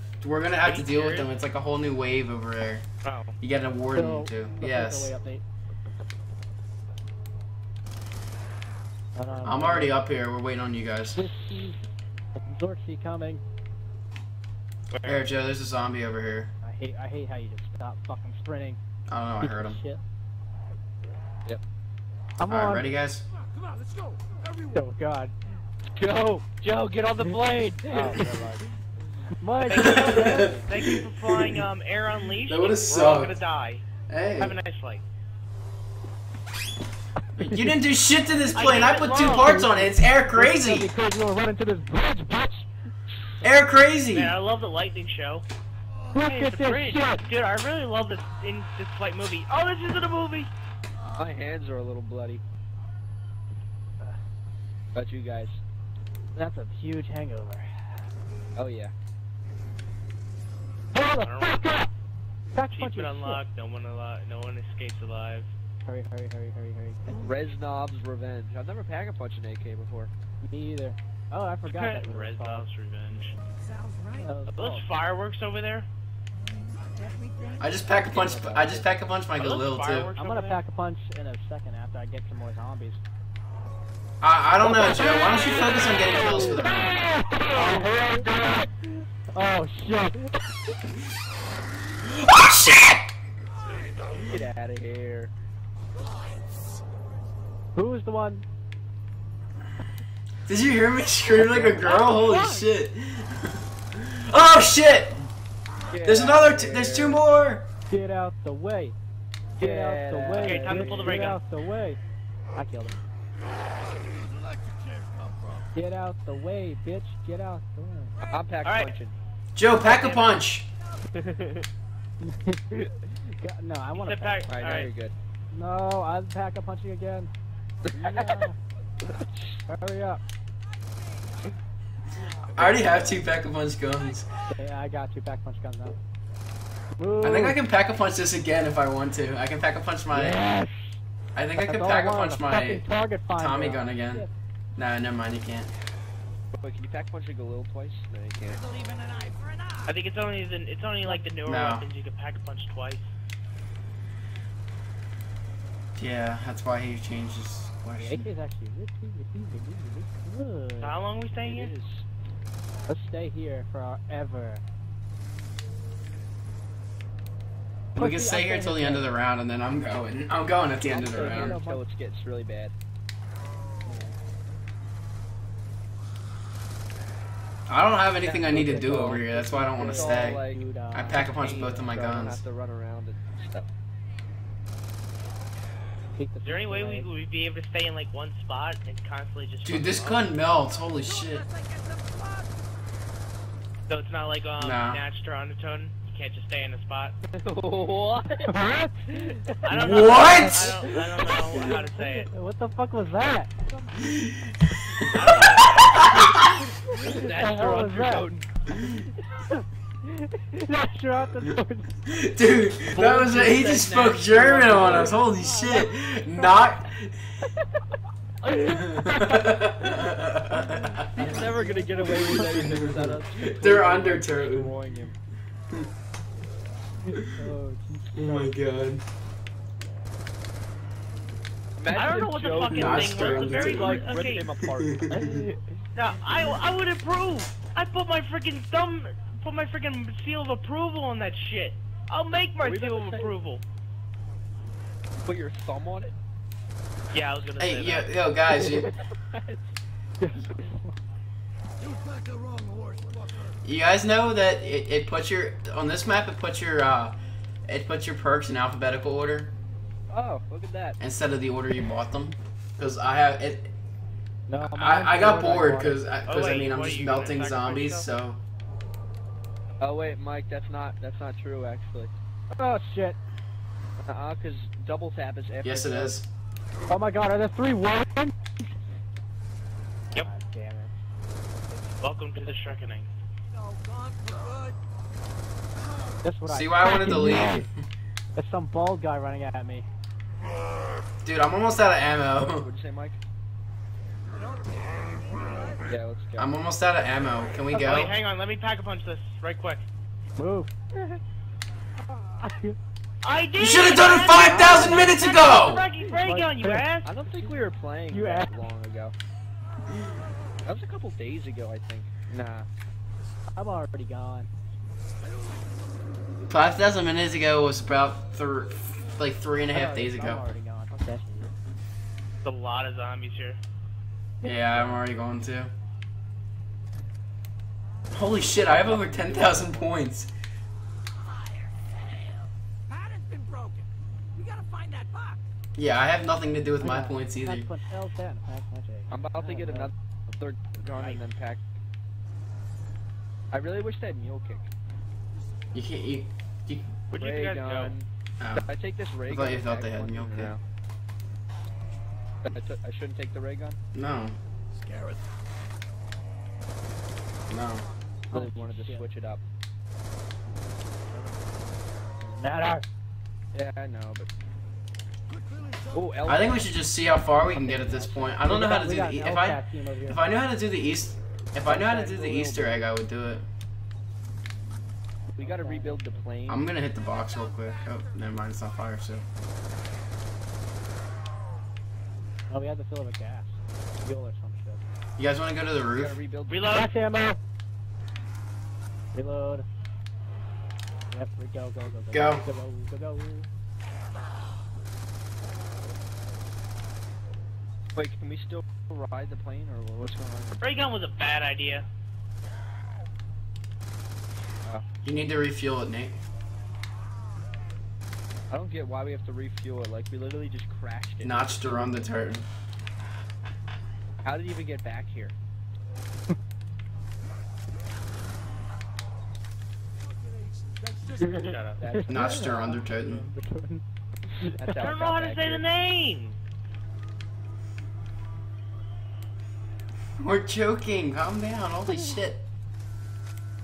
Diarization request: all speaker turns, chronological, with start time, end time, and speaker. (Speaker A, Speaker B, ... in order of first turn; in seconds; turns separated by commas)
Speaker A: 0.2-2.8, Speaker B: 0.6-1.3, Speaker B: 3.0-3.3, Speaker A: 3.4-5.1, Speaker C: 3.9-5.4, Speaker C: 9.1-9.9, Speaker A: 9.4-11.2, Speaker C: 11.1-11.9, Speaker C: 12.4-13.4, Speaker B: 14.9-15.3, Speaker A: 15.0-16.5, Speaker C: 16.6-18.8, Speaker A: 19.1-19.8, Speaker C: 19.4-20.0, Speaker C: 22.4-22.9, Speaker A: 22.5-23.2, Speaker C: 24.7-25.3, Speaker D: 25.9-28.7, Speaker C: 27.9-28.3, Speaker C: 29.4-30.7, Speaker B: 29.7-33.8, Speaker A: 29.7-31.6, Speaker A: 32.5-33.3, Speaker A: 34.1-34.6, Speaker B: 34.4-35.0, Speaker C: 37.4-37.7, Speaker A: 37.4-40.9, Speaker B: 38.5-39.6, Speaker C: 39.2-42.7, Speaker A: 43.4-44.4, Speaker B: 44.1-45.4, Speaker C: 46.1-47.2, Speaker B: 46.2-50.5, Speaker D: 51.1-52.4, Speaker D: 54.9-55.6, Speaker C: 56.3-58.0, Speaker D: 58.5-58.9, Speaker C: 60.9-61.9, Speaker B: 61.2-61.7, Speaker C: 62.5-63.4, Speaker B: 62.7-65.5, Speaker C: 65.8-67.3, Speaker D: 67.2-70.1, Speaker C: 70.4-72.7, Speaker B: 71.7-73.3, Speaker E: 73.8-74.0, Speaker C: 74.1-74.9, Speaker B: 74.5-75.9, Speaker E: 77.0-77.5, Speaker A: 77.6-80.1, Speaker D: 77.8-78.9, Speaker B: 79.4-80.6, Speaker C: 80.2-83.0, Speaker A: 84.2-87.0, Speaker C: 86.0-88.7, Speaker C: 89.3-90.5, Speaker A: 92.0-93.0, Speaker D: 94.1-95.3, Speaker C: 97.7-98.4, Speaker A: 100.5-105.3, Speaker C: 101.5-102.7, Speaker D: 105.9-107.2, Speaker A: 106.0-107.6, Speaker C: 107.9-109.0, Speaker D: 109.6-111.3, Speaker C: 109.6-112.0, Speaker B: 110.4-111.4, Speaker C: 112.5-113.0, Speaker C: 115.7-118.2, Speaker D: 118.3-119.2, Speaker B: 118.6-119.0, Speaker A: 119.5-120.7, Speaker D: 119.8-120.4, Speaker D: 121.1-121.7, Speaker C: 122.2-122.8, Speaker C: 123.4-124.4, Speaker B: 124.0-124.9, Speaker D: 124.5-125.1, Speaker C: 125.5-127.3, Speaker D: 127.9-128.4, Speaker C: 127.9-128.6, Speaker D: 129.0-129.6, Speaker C: 129.7-130.2, Speaker A: 132.5-134.3, Speaker D: 132.6-132.9, Speaker C: 134.5-136.0, Speaker C: 137.0-137.6, Speaker A: 137.2-140.4, Speaker C: 140.1-141.0, Speaker A: 141.3-145.7, Speaker C: 141.6-144.3, Speaker D: 146.5-148.7, Speaker E: 148.8-149.7, Speaker B: 149.9-153.1, Speaker A: 151.4-151.9, Speaker A: 155.9-158.3, Speaker C: 158.0-161.0, Speaker B: 160.8-161.7, Speaker D: 161.4-162.0, Speaker C: 162.9-164.6, Speaker A: 167.9-171.6, Speaker C: 167.9-169.1, Speaker D: 170.9-172.7, Speaker C: 171.1-171.8, Speaker A: 177.7-182.4, Speaker C: 178.2-181.8, Speaker D: 178.4-179.2, Speaker D: 179.8-183.7, Speaker C: 186.1-187.1, Speaker B: 186.4-190.3, Speaker A: 189.6-191.4, Speaker E: 191.6-192.5, Speaker B: 193.9-197.2, Speaker A: 194.6-195.0, Speaker D: 197.3-198.5, Speaker C: 198.4-200.5, Speaker D: 199.1-200.0, Speaker B: 199.6-202.3, Speaker A: 199.7-200.8, Speaker D: 200.7-201.7, Speaker C: 201.3-203.9, Speaker A: 204.0-206.6, Speaker B: 205.1-206.1, Speaker D: 205.9-208.5, Speaker C: 207.0-208.4, Speaker C: 210.4-212.0, Speaker A: 212.1-217.1, Speaker D: 212.9-215.2, Speaker C: 214.5-216.7, Speaker C: 218.4-219.6, Speaker A: 218.6-221.3, Speaker C: 220.5-222.9, Speaker D: 221.1-225.1, Speaker A: 222.3-224.7, Speaker C: 227.0-228.5, Speaker A: 228.1-229.0, Speaker D: 231.8-235.6, Speaker B: 231.9-234.5, Speaker A: 232.7-234.1, Speaker A: 234.6-235.5, Speaker B: 235.9-243.6, Speaker D: 242.6-243.3, Speaker D: 245.2-246.1, Speaker B: 247.1-248.1, Speaker A: 247.6-248.9, Speaker D: 248.5-249.6, Speaker C: 250.2-250.9, Speaker E: 252.1-253.2, Speaker A: 253.6-257.1, Speaker A: 257.7-259.5, Speaker D: 260.1-261.0, Speaker A: 261.0-263.7, Speaker C: 264.5-266.0, Speaker A: 264.6-268.4, Speaker B: 266.2-268.1, Speaker D: 269.8-272.1, Speaker C: 272.5-273.2, Speaker D: 274.0-276.2, Speaker A: 275.6-276.2, Speaker C: 276.9-278.7, Speaker C: 280.1-281.0, Speaker B: 282.0-283.1, Speaker C: 282.4-282.8, Speaker E: 283.8-284.7, Speaker C: 286.2-287.7, Speaker A: 286.5-287.7, Speaker C: 288.3-289.9, Speaker A: 291.2-292.6, Speaker D: 292.4-293.2, Speaker D: 295.8-296.6, Speaker A: 296.4-298.1, Speaker B: 297.7-299.9, Speaker C: 300.4-300.7, Speaker C: 302.1-302.8, Speaker B: 303.2-307.1, Speaker A: 303.6-305.9, Speaker C: 304.4-305.2, Speaker C: 306.1-306.9, Speaker D: 307.0-309.1, Speaker C: 308.1-308.6, Speaker D: 310.6-312.7, Speaker C: 313.5-314.5, Speaker A: 316.5-320.4, Speaker C: 319.7-321.5, Speaker B: 322.4-323.6, Speaker C: 324.4-325.0, Speaker A: 324.4-325.7, Speaker A: 328.1-330.3, Speaker D: 328.6-329.9, Speaker E: 332.9-333.8, Speaker E: 334.4-335.4, Speaker A: 335.8-337.7, Speaker C: 336.8-339.9, Speaker D: 339.1-341.6, Speaker D: 343.5-344.7, Speaker A: 345.7-346.9, Speaker B: 347.1-347.9, Speaker D: 347.1-350.6, Speaker A: 348.4-348.7, Speaker A: 349.3-350.5, Speaker D: 352.4-353.8, Speaker A: 353.9-354.4, Speaker A: 354.9-355.1, Speaker A: 357.5-357.9, Speaker C: 358.3-359.1, Speaker D: 358.3-359.4, Speaker C: 361.1-362.9, Speaker D: 363.5-364.3, Speaker D: 365.9-366.7, Speaker A: 366.2-373.4, Speaker D: 367.6-368.4, Speaker C: 368.4-370.2, Speaker D: 371.6-372.9, Speaker D: 375.3-376.7, Speaker C: 375.4-376.2, Speaker A: 376.5-379.2, Speaker C: 382.5-384.8, Speaker A: 385.2-386.2, Speaker D: 385.9-386.7, Speaker B: 386.5-386.9, Speaker C: 386.7-387.4, Speaker C: 389.1-389.7, Speaker C: 391.1-393.5, Speaker A: 392.1-392.4, Speaker D: 397.9-400.6, Speaker B: 400.6-401.9, Speaker A: 405.0-406.2, Speaker D: 408.5-412.1, Speaker A: 411.2-412.5, Speaker D: 414.2-415.3, Speaker B: 421.2-421.8, Speaker D: 421.8-422.8, Speaker C: 421.9-423.8, Speaker A: 422.1-423.2, Speaker C: 424.4-424.9, Speaker D: 424.4-425.7, Speaker B: 424.7-426.4, Speaker A: 430.2-432.4